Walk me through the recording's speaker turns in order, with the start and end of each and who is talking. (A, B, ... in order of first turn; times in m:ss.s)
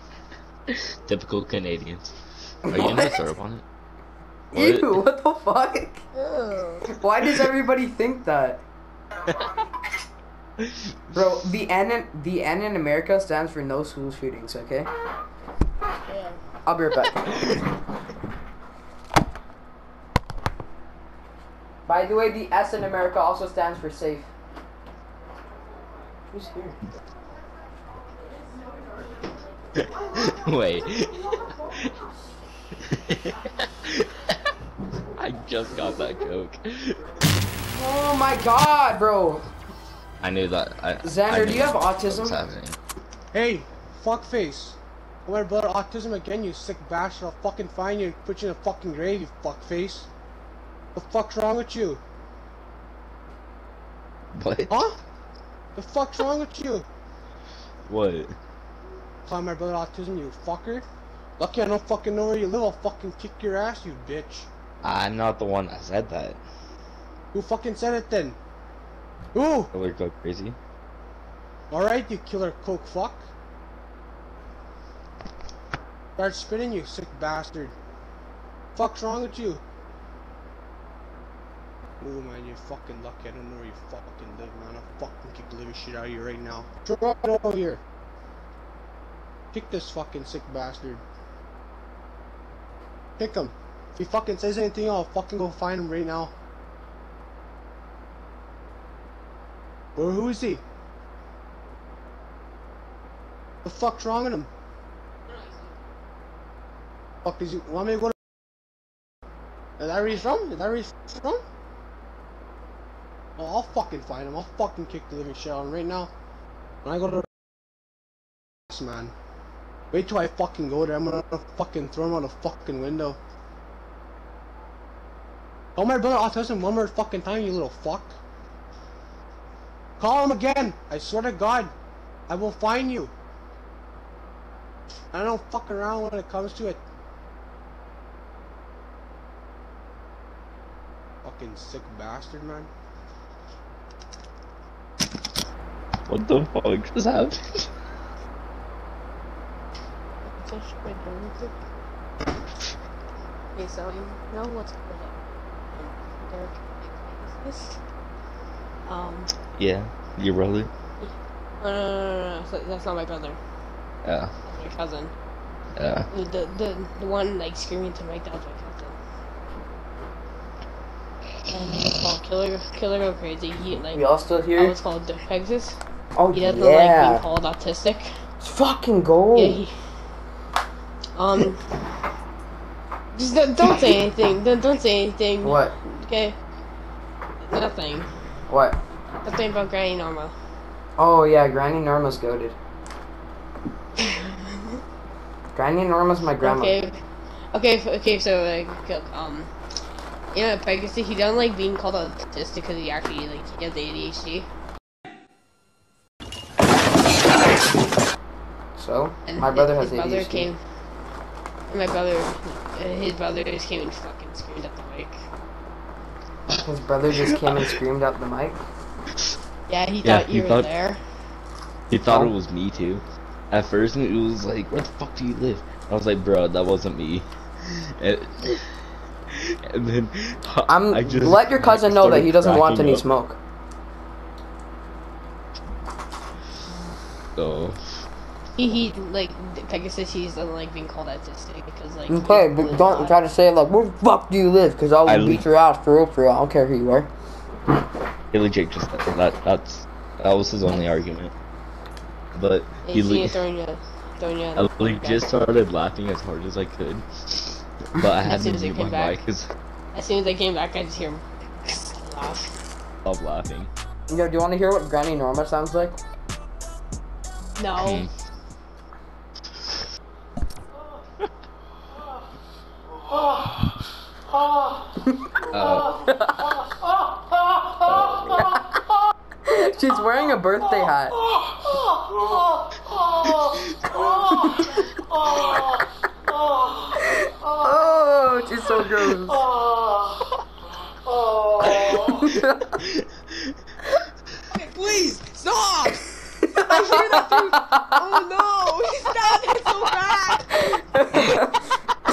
0:01.0-0:02.1 A
0:02.7-0:03.1 B
0:02.7-0:03.6 A
0:04.5-0:06.0 B
0:04.5-0:05.0 A
0:06.2-0:06.9 C
0:06.9-0:08.6 B
0:11.1-0:14.9 B
0:16.1-0:16.4 C
0:16.6-0:17.6 B
0:21.9-0:24.3 B
0:26.3-0:26.8 B
0:29.8-0:31.9 A
0:32.8-0:34.5 A
0:35.2-0:37.0 A
0:37.7-0:39.4 B
0:40.2-0:42.8 A
0:41.0-0:42.4 B
0:43.3-0:50.1 D
0:50.9-0:52.0 D
0:54.4-0:54.7 A
0:54.7-0:55.0 D
0:55.8-0:56.9 D
0:57.9-0:58.3 A
0:59.3-1:00.8 D
1:01.4-1:04.5 D
1:04.8-1:06.4 A
1:07.3-1:08.4 D
1:09.3-1:09.7 D
1:09.7-1:10.6 A
1:11.7-1:13.2 D
1:16.2-1:17.8 D
1:18.8-1:19.6 D
1:22.0-1:27.8 D
1:29.5-1:31.0 D
1:33.2-1:36.3 D
1:40.0-1:40.6 D
1:43.6-1:44.5 D
1:45.3-1:45.7 C
1:47.2-1:48.2 D
1:49.8-1:51.4 D
1:53.4-1:56.1 D
1:56.8-1:57.3 D
1:58.7-1:59.2 D
1:59.9-2:03.2 D
2:05.8-2:08.2 D
2:10.0-2:11.7 D
2:12.3-2:13.1 D
2:15.1-2:16.8 D
2:21.2-2:22.7 D
2:26.1-2:27.7 A
2:30.2-2:31.6 C
2:33.5-2:35.2 C
2:35.7-2:37.8 C
2:38.9-2:39.3 C
2:39.6-2:40.7 A
2:41.0-2:43.4 C
2:44.0-2:44.3 A
2:44.5-2:45.1 C
2:45.8-2:46.1 A
2:46.1-2:49.0 C
2:51.5-2:54.0 C
2:53.9-2:54.8 B
2:54.6-2:55.8 C
2:56.2-2:57.2 B
2:56.3-2:58.1 C
2:58.4-2:59.6 B
2:59.3-2:59.7 C
3:01.2-3:01.7 C
3:03.1-3:06.4 C
3:05.4-3:05.7 B
3:07.5-3:08.1 C
3:08.5-3:08.8 B
3:09.2-3:10.3 C
3:11.0-3:12.6 B
3:14.0-3:14.8 C
3:15.5-3:16.8 B
3:16.4-3:17.0 C
3:17.5-3:19.5 C
3:20.3-3:24.5 C
3:28.8-3:30.5 B
3:29.3-3:30.6 C
3:31.7-3:35.2 C
3:36.5-3:38.6 B
3:39.7-3:41.0 C
3:40.0-3:40.7 A
3:41.9-3:48.7 A
3:42.1-3:42.3 B
3:49.3-3:53.0 A
3:50.7-3:53.4 B
3:57.4-3:57.8 A
3:58.6-4:03.2 C
4:02.1-4:07.1 B
4:05.1-4:05.5 A
4:08.3-4:11.3 A
4:12.3-4:13.4 A
4:12.8-4:15.3 C
4:14.6-4:19.4 A
4:18.2-4:19.2 C
4:19.9-4:22.5 C
4:23.0-4:23.7 A
4:24.1-4:26.0 B
4:27.6-4:28.0 C
4:27.8-4:28.1 A
4:35.0-4:35.4 B
4:35.4-4:36.0 A
4:36.0-4:36.5 B
4:37.8-4:38.5 A
4:38.3-4:38.8 B
4:39.5-4:41.2 B
4:44.0-4:45.0 B
4:47.0-4:49.4 B
4:49.7-4:50.0 C
4:51.1-4:52.0 C
4:51.8-4:53.5 A
4:51.8-4:52.8 B
4:54.5-5:00.7 C
4:56.6-4:57.9 B
5:00.7-5:01.6 B